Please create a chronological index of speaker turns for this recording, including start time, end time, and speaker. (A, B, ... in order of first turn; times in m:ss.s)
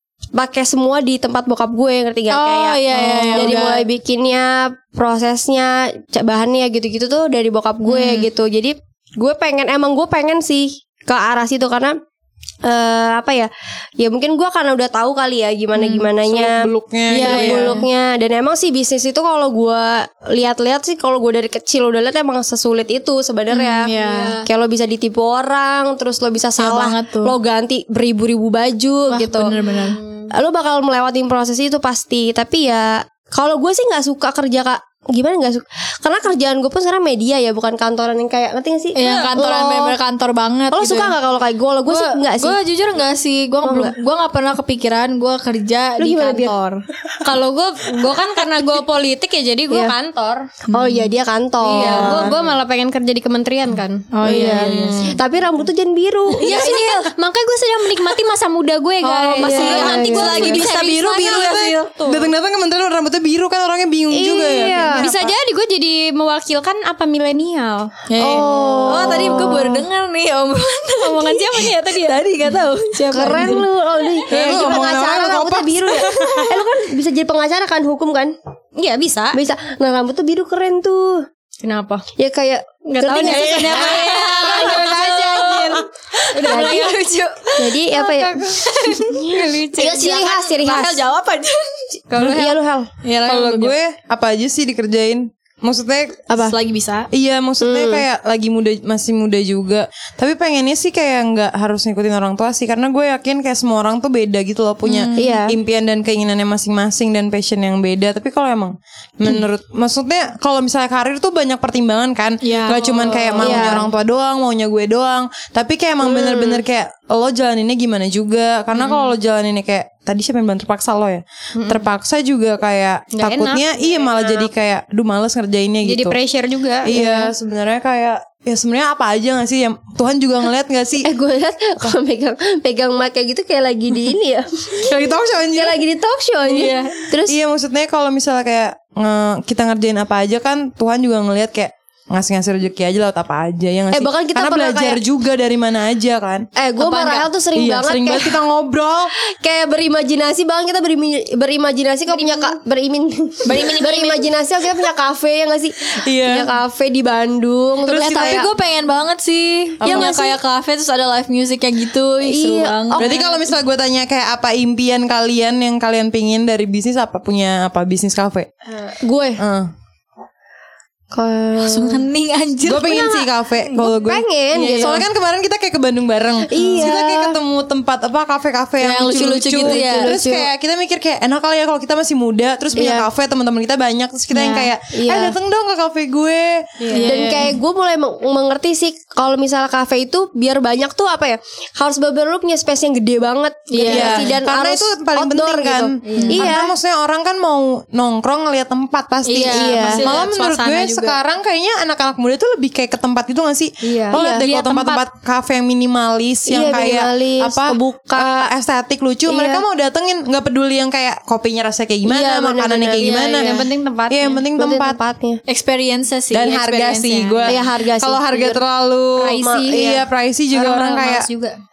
0:00.3-0:11.9 A
0:02.3-0:03.8 B
0:07.8-0:08.3 B
0:12.6-0:16.6 A
0:15.7-0:16.1 B
0:16.2-0:17.8 C
0:17.1-0:17.9 B
0:17.2-0:23.9 A
0:23.5-0:24.4 B
0:23.9-0:24.4 D
0:24.4-0:29.5 A
0:26.6-0:27.3 B
0:29.1-0:30.0 B
0:29.7-0:30.3 D
0:30.3-0:40.0 A
0:38.9-0:41.1 B
0:39.0-0:39.3 D
0:40.7-0:42.6 A
0:41.9-0:46.8 B
0:43.6-0:43.9 A
0:46.0-0:46.5 A
0:47.2-0:50.4 D
0:50.7-0:51.1 B
0:50.7-0:52.4 A
0:51.6-0:54.1 D
0:51.6-0:52.3 B
0:54.1-0:55.1 B
0:54.2-0:56.8 A
0:54.5-0:55.2 C
0:56.4-1:02.3 D
0:56.4-0:56.9 B
0:59.0-1:00.6 A
0:59.3-1:01.9 B
1:01.2-1:05.3 C
1:04.1-1:05.0 A
1:05.0-1:07.9 D
1:08.1-1:13.7 B
1:08.2-1:09.8 A
1:11.0-1:12.2 D
1:13.1-1:18.3 A
1:14.3-1:16.7 C
1:14.3-1:14.8 D
1:18.8-1:19.4 D
1:19.3-1:21.2 A
1:21.6-1:22.0 D
1:22.2-1:25.8 A
1:22.9-1:30.2 D
1:23.2-1:25.1 B
1:26.4-1:26.8 B
1:26.4-1:26.9 A
1:27.6-1:28.4 A
1:28.6-1:31.8 B
1:29.3-1:31.0 A
1:32.1-1:32.6 D
1:32.2-1:32.8 A
1:33.0-1:33.7 B
1:33.2-1:36.3 C
1:36.3-1:37.1 B
1:37.1-2:06.2 C
1:37.6-1:38.0 A
1:44.8-1:45.4 B
1:45.2-1:45.6 A
1:52.4-1:53.8 B
1:52.7-1:53.5 D
1:53.4-1:53.8 A
1:56.1-1:56.5 D
1:58.7-1:59.1 D
2:01.5-2:01.8 D
2:03.1-2:04.5 D
2:05.8-2:06.9 D
2:06.8-2:11.1 C
2:06.9-2:07.3 A
2:11.0-2:17.4 A
2:14.8-2:15.8 C
2:16.5-2:17.0 B
2:17.2-2:26.5 C
2:23.9-2:25.0 A
2:26.6-2:28.4 A
2:27.5-2:29.1 C
2:29.4-2:38.5 A
2:32.1-2:32.5 D
2:33.4-2:34.3 B
2:36.0-2:36.5 C
2:37.8-2:38.5 C
2:37.9-2:43.3 B
2:39.8-2:40.1 C
2:39.8-2:40.4 A
2:42.2-2:43.4 A
2:43.0-2:48.5 C
2:49.0-2:49.4 A
2:49.4-2:49.7 C
2:51.1-2:52.0 A
2:51.6-2:53.2 B
2:52.6-3:06.8 C
2:52.8-2:55.0 A
2:54.5-2:55.0 B
2:56.5-2:57.4 A
2:56.5-2:56.9 B
2:58.8-3:00.1 B
2:59.6-3:00.5 A
3:02.8-3:03.1 A
3:04.3-3:04.7 B
3:04.9-3:05.3 A
3:06.8-3:07.1 D
3:06.9-3:07.6 B
3:07.0-3:16.7 A
3:13.7-3:14.3 B
3:13.8-3:33.5 C
3:16.0-3:16.5 D
3:16.2-3:16.5 B
3:19.2-3:21.2 B
3:19.4-3:20.1 A
3:23.8-3:25.0 D
3:24.1-3:24.4 A
3:26.5-3:28.4 A
3:29.2-3:29.6 A
3:32.0-3:33.3 A
3:33.0-3:33.5 B
3:33.4-3:34.4 D
3:34.1-3:35.0 C
3:34.6-3:35.4 A
3:35.5-3:37.6 B
3:36.3-3:41.3 C
3:37.5-3:38.6 A
3:39.2-3:40.0 D
3:39.3-3:40.0 A
3:40.5-3:41.6 D